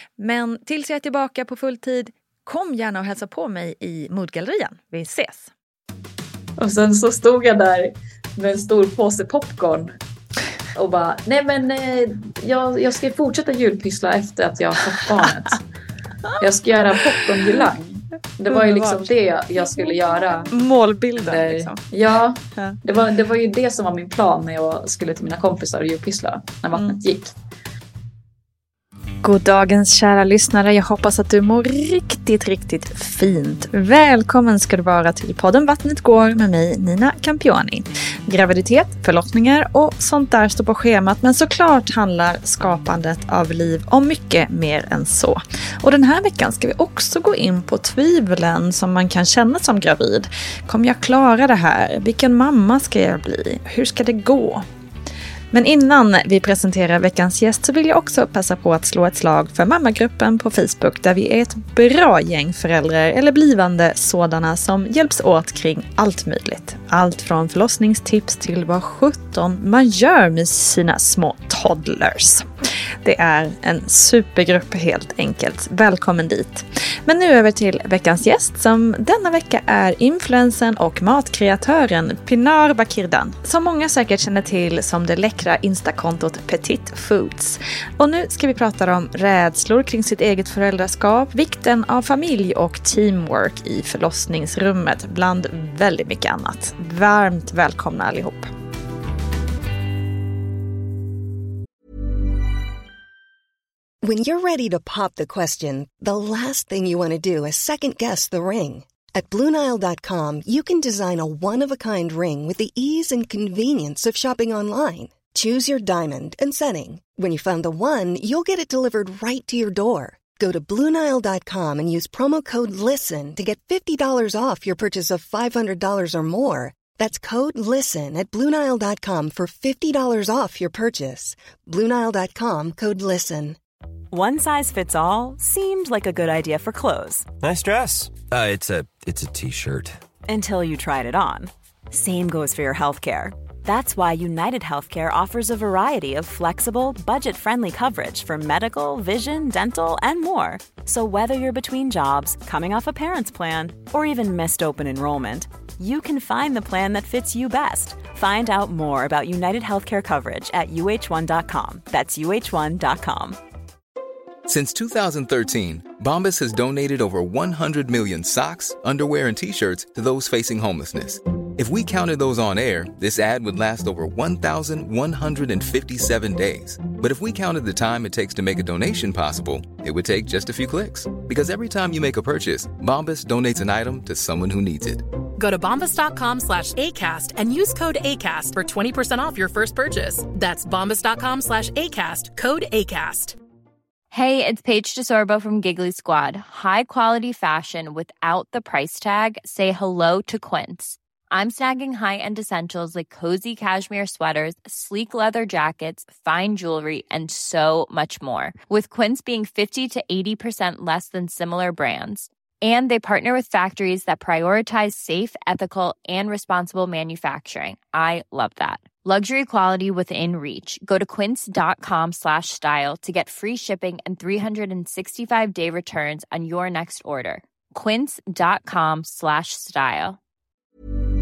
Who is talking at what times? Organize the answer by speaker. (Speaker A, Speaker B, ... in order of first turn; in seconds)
Speaker A: 0.2-5.5, 17.1-17.6, 18.5-20.0, 20.5-21.8, 22.6-22.8, 29.2-54.7, 55.5-72.5, 73.0-98.5
Speaker B: 6.6-10.0, 10.8-15.6, 16.4-20.5, 21.2-27.3
Speaker C: 104.0-133.6
Speaker D: 134.1-137.3, 140.3-163.4
Speaker E: 137.4-140.0
Speaker F: 164.5-185.0
Speaker G: 185.4-193.4
Speaker H: 194.1-230.2